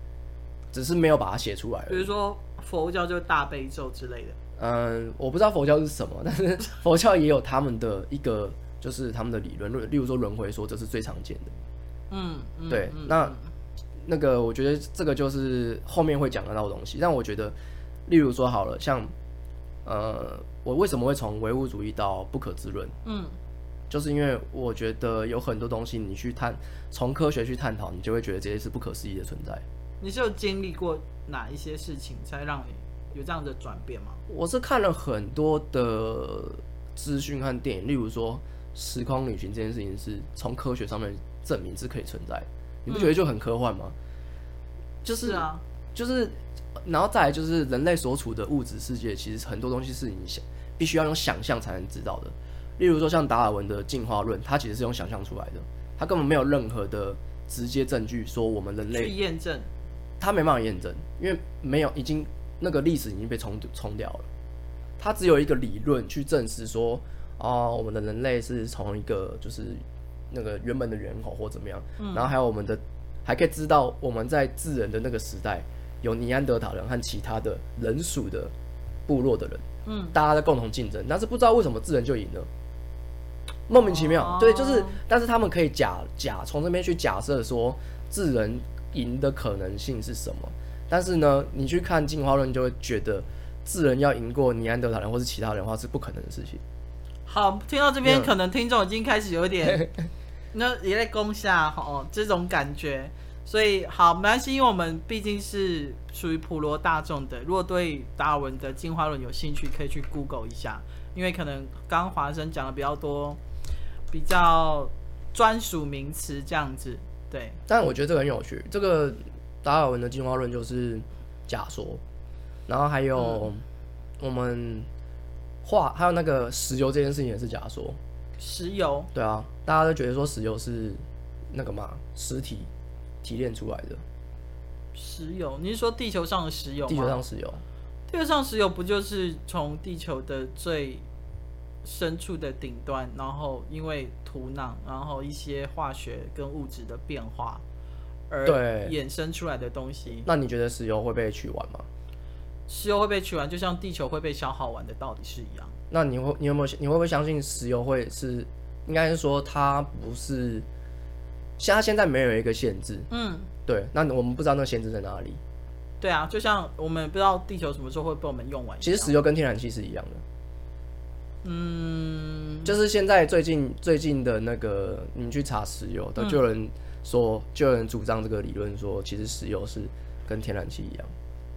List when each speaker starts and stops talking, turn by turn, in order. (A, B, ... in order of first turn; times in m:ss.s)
0:00.7-0:02.1 A
0:01.9-0:04.4 B
0:04.6-0:11.5 A
0:12.1-0:13.4 B
0:12.7-0:13.4 A
0:14.0-0:19.1 A
0:19.8-0:22.9 A
0:23.0-0:23.3 B
0:23.9-0:29.6 A
0:30.0-0:34.2 B
0:34.3-0:43.9 A
0:42.9-0:43.2 B
0:45.0-0:59.2 A
0:45.2-0:45.6 B
0:58.9-0:59.7 B
1:00.2-1:04.3 A
1:05.0-1:18.5 A
1:12.0-1:12.3 B
1:19.1-1:22.5 A
1:19.9-1:20.2 B
1:23.7-1:36.6 A
1:23.8-1:25.0 B
1:37.3-1:39.9 B
1:38.0-1:38.3 A
1:40.5-1:53.4 B
1:54.1-1:57.6 B
1:57.7-2:02.0 A
2:02.7-2:03.6 A
2:03.2-2:03.5 B
2:04.2-2:04.9 A
2:05.6-2:08.0 A
2:08.4-2:09.1 B
2:09.1-2:12.7 A
2:13.2-2:14.0 A
2:14.9-2:17.2 B
2:16.9-2:17.6 A
2:18.1-2:21.0 B
2:21.8-2:27.6 B
2:28.3-2:30.3 B
2:28.4-2:29.0 A
2:30.2-2:31.9 A
2:32.7-2:35.7 B
2:35.9-2:40.7 A
2:41.6-2:43.1 A
2:43.1-2:43.5 B
2:43.7-2:45.4 A
2:46.0-2:49.2 B
2:48.8-2:50.2 A
2:51.4-2:52.7 B
2:52.6-3:01.1 A